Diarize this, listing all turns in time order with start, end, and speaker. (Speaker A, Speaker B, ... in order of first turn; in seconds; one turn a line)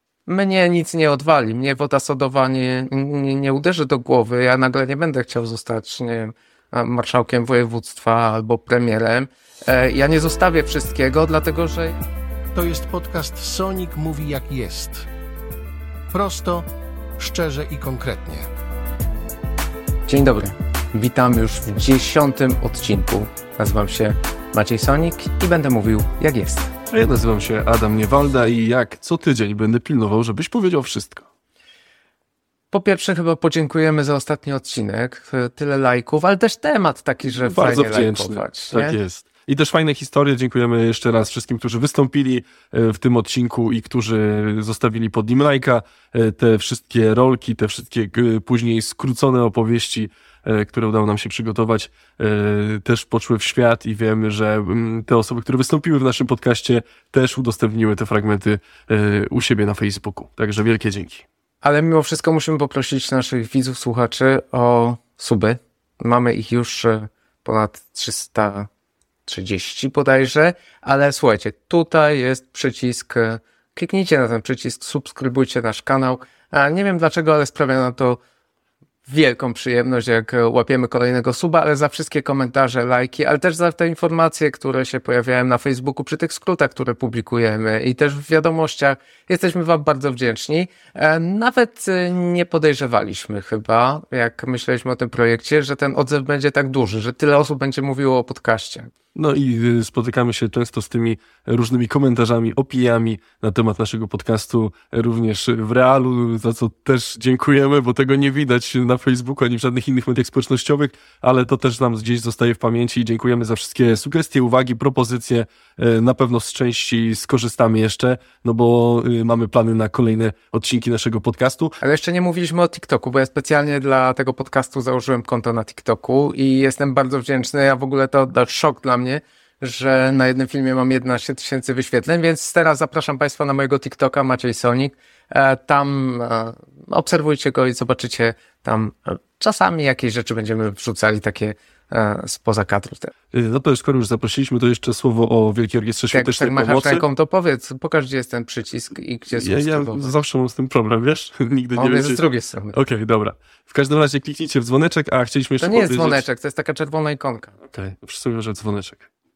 Speaker A: 0.3-12.0
Speaker B: 12.5-15.1
Speaker B: 16.1-18.5
Speaker A: 20.1-26.7
Speaker C: 26.9-31.2
Speaker A: 32.7-39.0
Speaker C: 37.4-61.2
Speaker A: 61.6-68.7
Speaker A: 69.3-78.2
Speaker A: 79.0-98.9
Speaker C: 99.1-121.8
Speaker A: 121.8-143.1
Speaker C: 143.3-147.0
Speaker A: 146.1-150.1
Speaker C: 149.3-152.2
Speaker A: 151.8-152.8
Speaker C: 152.7-156.2
Speaker A: 155.6-157.5
Speaker C: 157.6-159.1